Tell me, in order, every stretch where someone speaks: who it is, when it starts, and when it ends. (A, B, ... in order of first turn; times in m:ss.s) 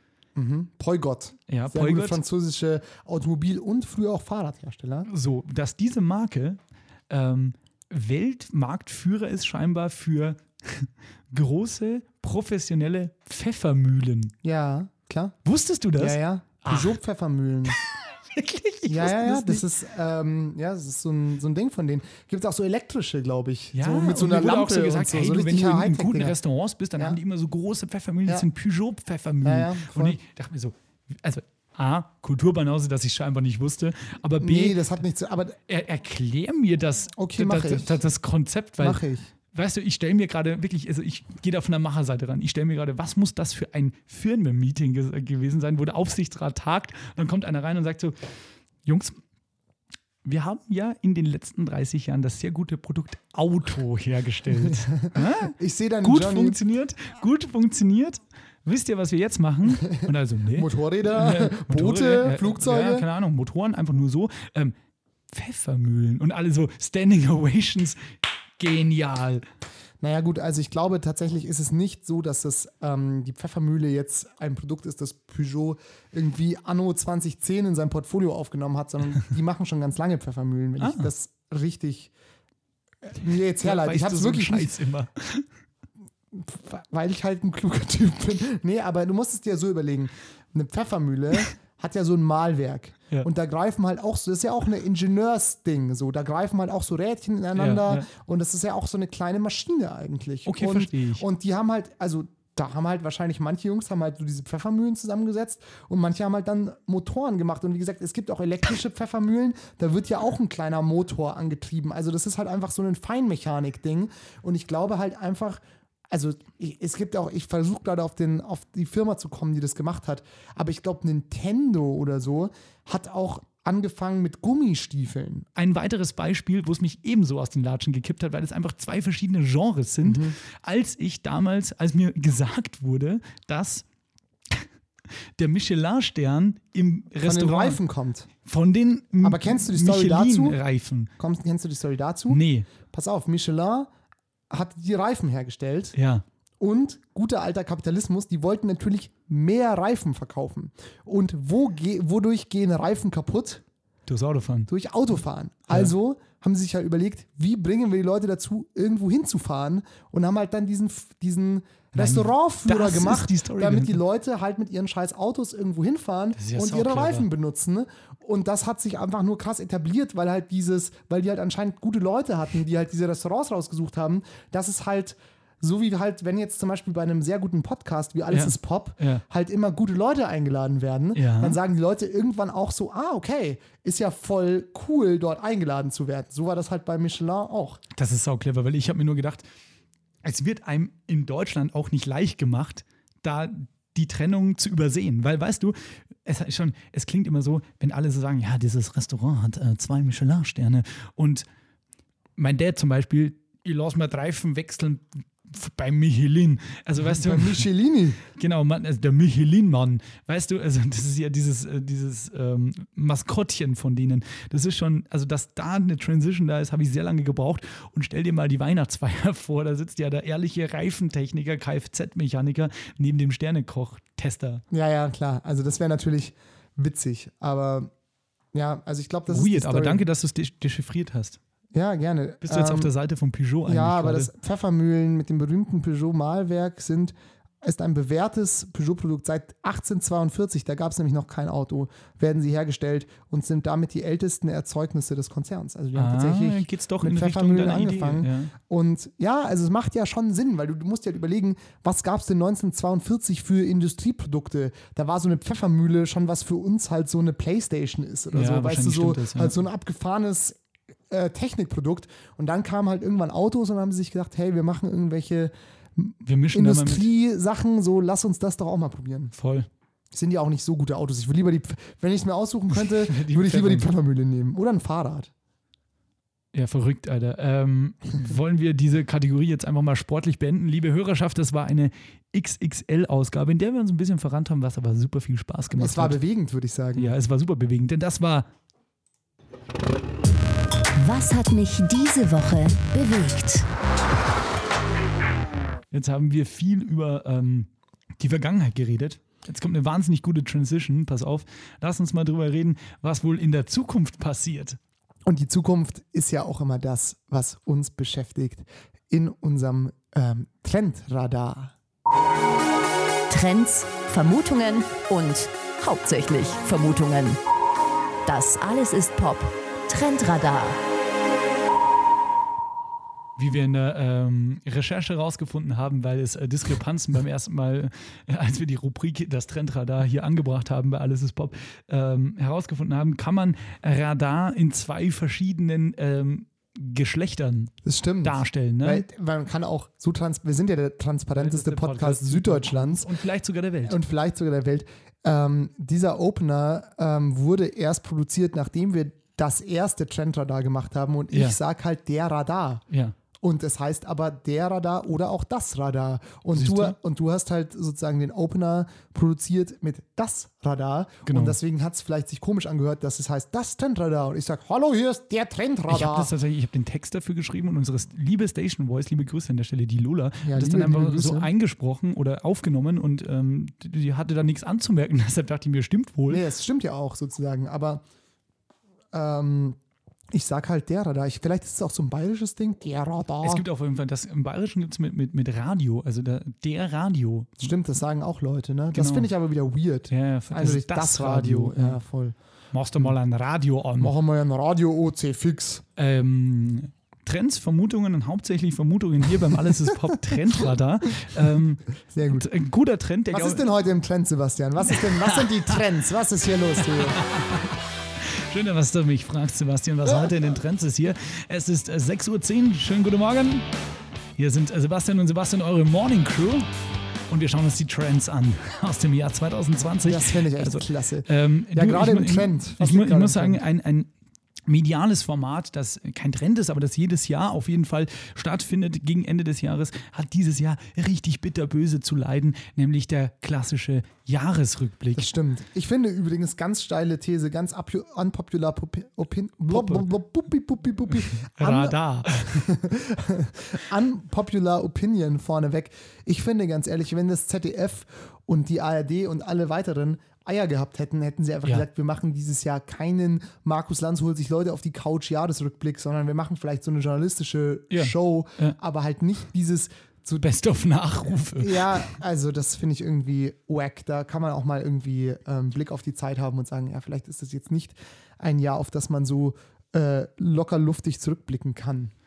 0:00.4-0:05.1 A
0:01.5-0:02.2 B
0:05.1-0:06.6 B
0:07.1-0:14.3 B
0:14.4-0:15.4 A
0:15.4-0:17.0 B
0:16.0-0:17.8 A
0:18.3-0:19.6 B
0:18.9-0:26.4 A
0:23.7-0:34.9 B
0:29.4-0:30.2 A
0:34.4-0:35.6 A
0:35.7-0:39.0 B
0:37.2-0:38.0 A
0:38.8-0:39.3 A
0:39.5-0:48.2 B
0:48.8-0:49.2 B
0:50.2-1:04.8 B
0:54.6-0:56.6 A
0:59.8-1:03.1 A
1:05.3-1:08.0 B
1:08.6-1:09.4 B
1:10.0-1:22.1 A
1:20.8-1:21.1 B
1:23.1-1:24.7 A
1:23.6-1:25.5 B
1:26.3-2:05.5 A
1:37.6-1:38.1 B
1:40.5-1:41.2 B
2:05.6-2:13.8 B
2:10.0-2:10.4 A
2:15.4-2:17.8 B
2:17.2-2:18.3 A
2:18.4-2:21.1 B
2:19.2-2:20.6 A
2:21.2-2:23.9 A
2:22.3-2:22.7 B
2:24.5-2:26.0 A
2:26.0-2:26.2 B
2:26.6-2:33.6 A
2:34.1-2:34.7 B
2:34.7-3:07.8 A
2:42.0-2:44.0 B
2:46.4-2:47.3 B
2:58.3-2:59.2 B
3:01.2-3:01.6 B
3:08.0-3:09.5 B
3:10.2-3:21.5 B
3:22.4-3:27.7 B
3:27.0-3:28.2 A
3:28.3-3:44.6 B
3:44.7-3:47.9 A
3:48.5-3:50.1 A
3:49.3-3:51.4 B
3:51.7-3:52.9 A
3:52.4-3:54.3 B
3:53.7-4:20.6 A
4:06.0-4:08.5 B
4:18.3-4:19.6 B
4:21.1-4:29.3 A
4:26.2-4:27.1 B
4:29.3-4:29.7 B
4:30.1-4:35.3 A
4:32.7-4:33.9 B
4:36.5-4:46.2 B
4:45.8-4:47.1 A
4:47.0-4:48.5 B
4:51.0-4:53.7 C
4:55.9-4:57.7 B
4:58.2-5:04.8 B
5:05.3-5:11.7 A
5:13.3-5:17.4 C
5:18.3-5:20.8 C
5:23.4-5:39.0 B
5:37.8-5:43.1 A
5:41.4-5:44.0 B
5:43.8-5:52.8 A
5:51.3-5:51.6 B
5:52.9-5:53.2 B
5:53.4-6:06.3 A
5:56.5-5:57.0 B
6:01.3-6:01.6 B
6:05.9-6:16.4 B
6:10.4-6:11.5 A
6:16.3-6:18.0 A
6:19.1-6:19.8 A
6:20.3-6:23.6 A
6:23.4-6:27.7 B
6:27.6-6:32.4 A
6:28.9-6:29.3 B
6:30.1-6:32.0 B
6:32.7-6:34.1 B
6:34.0-6:35.8 A
6:36.0-6:43.6 B
6:42.1-6:42.5 A
6:43.3-6:47.2 A
6:44.8-6:45.8 B
6:46.8-6:53.7 B
6:54.4-6:56.7 B
6:57.3-7:04.1 B
7:00.0-7:03.6 A
7:04.7-7:15.3 B
7:15.2-7:40.4 A
7:19.7-7:20.1 B
7:21.1-7:22.7 B
7:37.9-7:38.8 B
7:40.4-7:42.1 B
7:41.6-7:52.1 A